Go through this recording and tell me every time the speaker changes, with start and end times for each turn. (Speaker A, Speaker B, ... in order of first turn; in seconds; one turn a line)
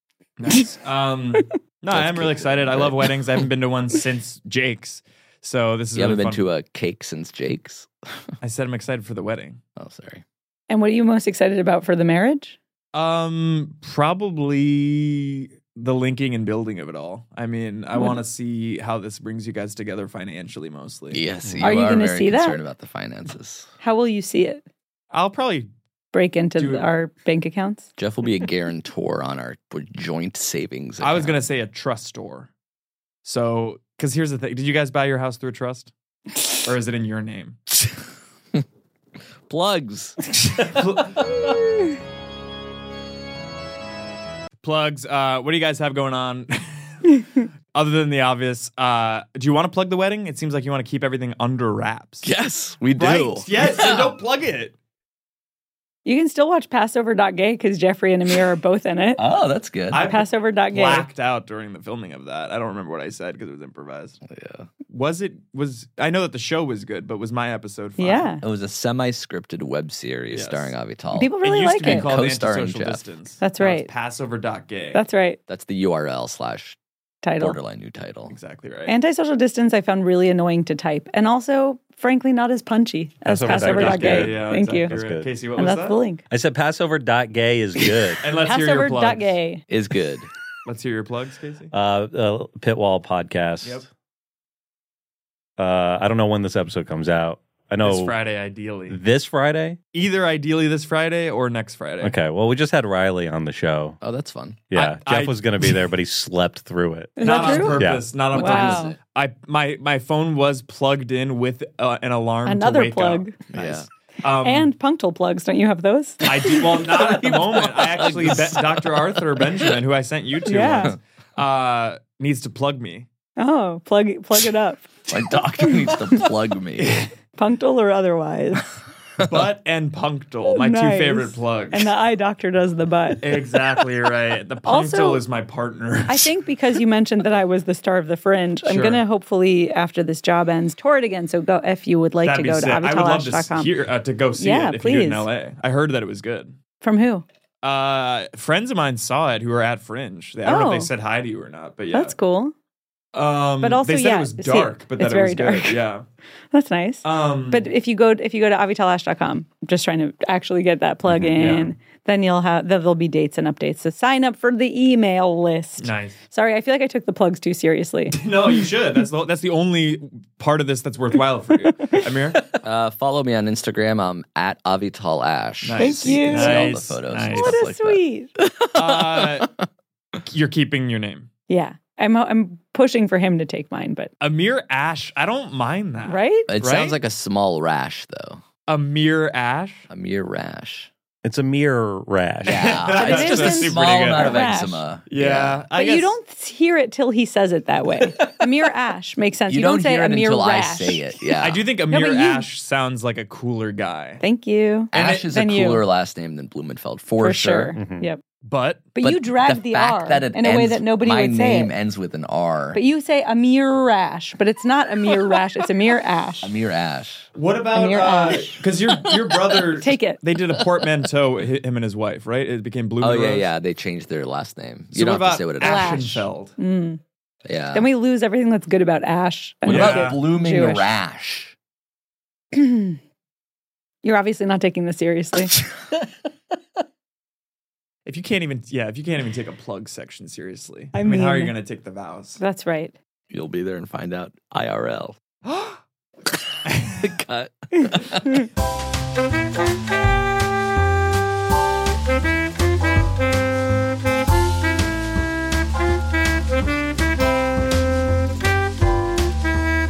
Speaker A: 0.4-6.5
Speaker B: 1.9-3.4
Speaker B: 6.0-7.9
Speaker A: 8.4-9.6
Speaker B: 9.8-10.2
Speaker C: 10.7-12.6
Speaker A: 12.9-21.2
Speaker B: 21.1-23.7
Speaker C: 21.6-22.6
Speaker C: 23.8-24.6
Speaker A: 25.1-25.7
Speaker C: 26.1-27.9
Speaker A: 26.6-26.9
Speaker B: 28.0-31.4
Speaker A: 31.0-32.5
Speaker A: 33.2-35.9
Speaker A: 36.6-37.6
Speaker B: 39.5-40.2
Speaker A: 40.5-41.5
Speaker A: 44.6-46.9
Speaker A: 47.7-52.3
Speaker B: 52.2-54.1
Speaker A: 53.0-54.8
Speaker C: 56.0-59.2
Speaker B: 59.2-60.1
Speaker A: 59.9-64.2
Speaker C: 60.0-61.1
Speaker B: 64.2-64.7
Speaker A: 64.9-68.3
Speaker C: 68.0-68.4
Speaker B: 68.4-73.0
Speaker A: 70.3-70.7
Speaker C: 71.1-72.1
Speaker A: 71.4-75.0
Speaker C: 73.4-73.9
Speaker C: 74.9-75.4
Speaker B: 75.5-76.8
Speaker C: 77.2-77.6
Speaker B: 77.4-78.3
Speaker A: 78.3-78.9
Speaker C: 78.9-84.9
Speaker D: 83.2-85.3
Speaker A: 83.4-86.0
Speaker C: 85.5-86.2
Speaker D: 86.3-88.2
Speaker A: 88.2-89.4
Speaker C: 88.3-89.7
Speaker B: 89.7-90.3
Speaker A: 90.7-91.7
Speaker D: 91.7-93.9
Speaker D: 95.6-98.1
Speaker A: 97.8-99.0
Speaker D: 98.9-99.8
Speaker A: 99.9-102.2
Speaker D: 102.0-104.0
Speaker B: 104.0-104.6
Speaker D: 104.7-108.1
Speaker A: 104.7-105.8
Speaker C: 107.2-109.0
Speaker A: 107.2-114.7
Speaker B: 108.3-109.0
Speaker C: 112.5-113.4
Speaker B: 113.5-113.9
Speaker C: 114.4-116.8
Speaker A: 116.2-123.1
Speaker B: 117.0-119.2
Speaker C: 120.5-121.0
Speaker C: 123.4-125.0
Speaker B: 125.1-127.1
Speaker C: 125.6-126.2
Speaker C: 127.3-128.8
Speaker A: 129.2-131.9
Speaker C: 130.6-133.2
Speaker A: 133.2-136.3
Speaker C: 134.6-135.2
Speaker C: 136.1-143.7
Speaker A: 138.6-139.0
Speaker A: 142.2-146.5
Speaker C: 144.4-145.3
Speaker C: 146.8-147.2
Speaker A: 147.6-152.2
Speaker C: 150.4-150.9
Speaker C: 151.9-152.5
Speaker A: 153.1-156.1
Speaker C: 153.6-155.8
Speaker C: 156.5-168.2
Speaker A: 157.0-157.7
Speaker A: 161.4-161.7
Speaker A: 165.8-166.2
Speaker A: 168.1-172.5
Speaker B: 172.5-179.6
Speaker A: 175.6-177.6
Speaker C: 175.8-176.7
Speaker C: 177.3-178.3
Speaker A: 178.7-179.5
Speaker A: 180.3-181.3
Speaker C: 181.5-184.1
Speaker A: 184.2-187.0
Speaker C: 186.1-186.5
Speaker B: 186.5-188.4
Speaker A: 188.7-189.9
Speaker B: 189.9-190.9
Speaker D: 191.2-192.8
Speaker B: 192.4-195.6
Speaker A: 192.4-196.2
Speaker C: 192.9-194.8
Speaker C: 195.8-201.2
Speaker B: 198.0-198.5
Speaker B: 199.5-201.6
Speaker A: 201.4-204.2
Speaker C: 201.9-202.5
Speaker C: 204.2-205.9
Speaker A: 204.9-205.3
Speaker B: 204.9-207.8
Speaker C: 207.2-208.2
Speaker D: 207.8-208.1
Speaker A: 208.4-208.9
Speaker C: 208.9-211.7
Speaker B: 209.0-212.8
Speaker C: 212.8-216.5
Speaker B: 216.4-217.3
Speaker A: 217.3-223.5
Speaker C: 217.8-218.6
Speaker C: 219.8-220.2
Speaker B: 223.0-226.1
Speaker A: 224.9-226.6
Speaker C: 225.6-227.0
Speaker B: 227.4-227.9
Speaker C: 227.7-230.9
Speaker B: 229.7-231.6
Speaker A: 229.7-230.2
Speaker C: 232.5-233.0
Speaker C: 234.0-235.6
Speaker A: 238.1-242.4
Speaker C: 240.9-241.6
Speaker C: 242.4-242.9
Speaker B: 243.3-245.2
Speaker A: 245.4-245.8
Speaker A: 246.7-247.2
Speaker B: 247.0-248.4